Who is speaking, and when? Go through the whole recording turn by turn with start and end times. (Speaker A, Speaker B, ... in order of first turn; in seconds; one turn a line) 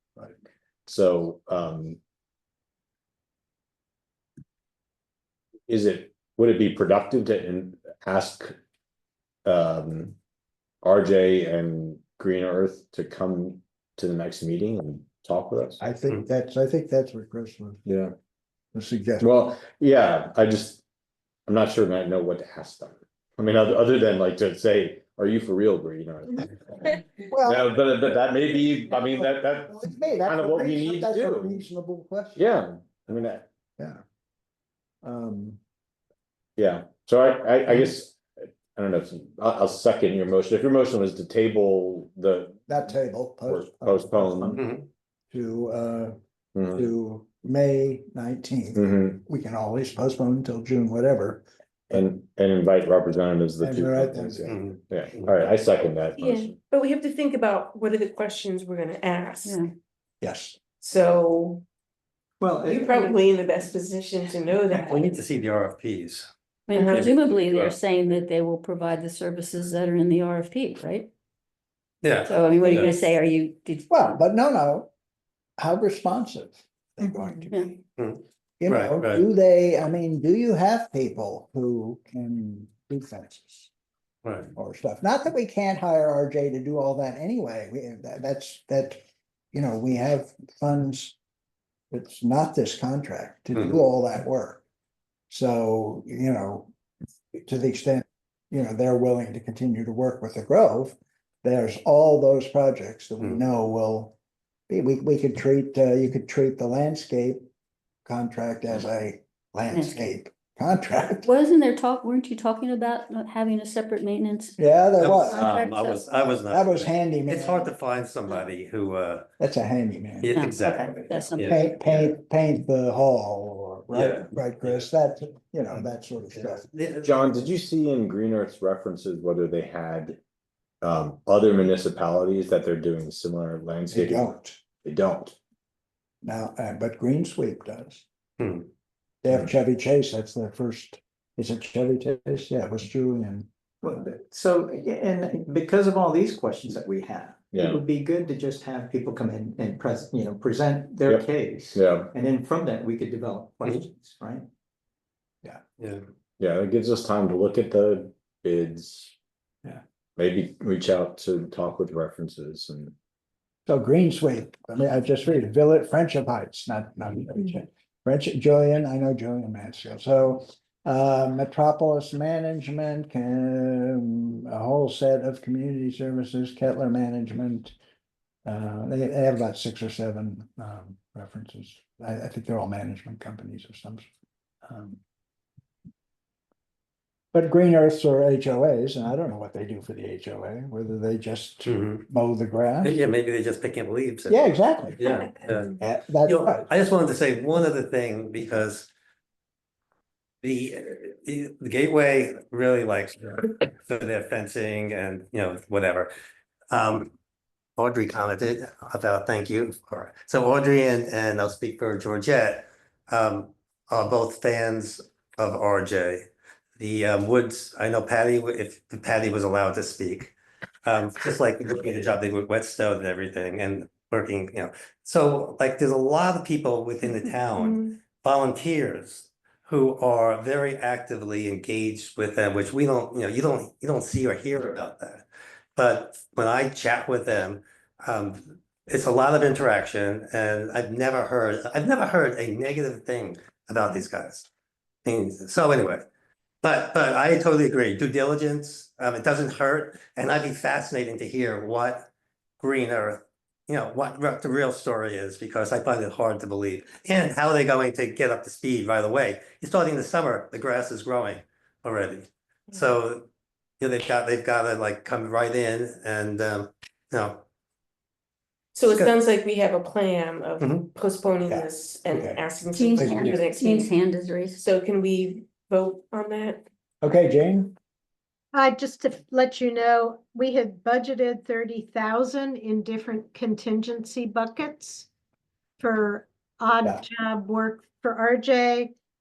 Speaker A: 0.8-2.0
Speaker A: 5.7-8.5
Speaker A: 9.4-10.2
Speaker A: 10.8-15.8
Speaker B: 15.8-17.8
Speaker A: 17.9-18.1
Speaker B: 18.7-19.3
Speaker A: 19.2-20.8
Speaker A: 21.5-29.7
Speaker B: 27.3-27.7
Speaker B: 28.9-32.4
Speaker A: 30.2-31.6
Speaker A: 32.4-33.5
Speaker B: 35.0-35.6
Speaker A: 36.6-38.2
Speaker A: 38.7-42.7
Speaker B: 42.7-44.6
Speaker A: 43.5-44.6
Speaker C: 44.5-44.9
Speaker B: 45.3-46.1
Speaker A: 46.5-46.8
Speaker B: 46.7-52.1
Speaker A: 48.8-49.2
Speaker A: 51.9-56.5
Speaker B: 53.6-54.6
Speaker C: 54.5-55.4
Speaker D: 56.2-59.6
Speaker B: 60.2-60.6
Speaker D: 60.8-61.6
Speaker E: 62.4-63.2
Speaker D: 62.7-65.1
Speaker E: 64.7-65.0
Speaker C: 64.9-66.3
Speaker F: 66.7-71.1
Speaker D: 66.7-67.1
Speaker C: 66.9-67.8
Speaker C: 72.0-72.9
Speaker F: 72.2-73.9
Speaker B: 73.9-74.9
Speaker B: 75.6-77.8
Speaker C: 78.0-79.2
Speaker B: 78.6-83.7
Speaker C: 84.2-84.5
Speaker B: 84.5-89.0
Speaker B: 89.5-91.2
Speaker B: 91.9-94.6
Speaker C: 93.5-93.8
Speaker B: 95.3-96.7
Speaker B: 97.4-104.2
Speaker B: 104.7-107.4
Speaker B: 108.0-111.3
Speaker F: 109.7-110.0
Speaker F: 111.1-114.5
Speaker B: 114.6-115.4
Speaker C: 115.0-119.3
Speaker F: 115.2-116.0
Speaker B: 116.3-117.7
Speaker B: 119.4-120.3
Speaker C: 120.2-122.1
Speaker F: 120.3-121.6
Speaker B: 121.5-126.7
Speaker C: 123.9-124.9
Speaker C: 125.7-127.1
Speaker A: 127.0-130.2
Speaker A: 130.8-134.3
Speaker B: 133.9-134.6
Speaker A: 134.8-135.4
Speaker B: 136.2-138.0
Speaker C: 138.4-138.7
Speaker B: 139.2-143.5
Speaker E: 143.8-154.4
Speaker A: 147.5-147.8
Speaker A: 151.1-152.1
Speaker A: 156.4-159.1
Speaker A: 160.2-162.9
Speaker B: 163.7-177.7
Speaker B: 178.4-184.1
Speaker B: 184.6-185.0
Speaker B: 187.3-193.0
Speaker C: 191.6-192.0
Speaker C: 192.8-194.4
Speaker B: 194.3-195.0
Speaker C: 194.9-198.9
Speaker B: 195.7-196.7
Speaker C: 200.4-206.1
Speaker C: 206.7-207.1
Speaker C: 207.8-216.2
Speaker C: 216.8-220.3
Speaker C: 220.8-235.2
Speaker D: 227.6-227.9
Speaker C: 235.8-244.4
Speaker C: 245.0-246.1
Speaker C: 246.6-252.1
Speaker C: 252.6-263.3
Speaker C: 263.8-267.4
Speaker D: 268.7-273.9
Speaker C: 268.9-269.1
Speaker C: 270.6-270.9
Speaker B: 271.4-272.4
Speaker F: 272.7-274.6
Speaker B: 273.0-273.4
Speaker D: 274.6-276.6
Speaker B: 277.0-277.7
Speaker G: 278.5-285.1
Speaker G: 285.8-288.9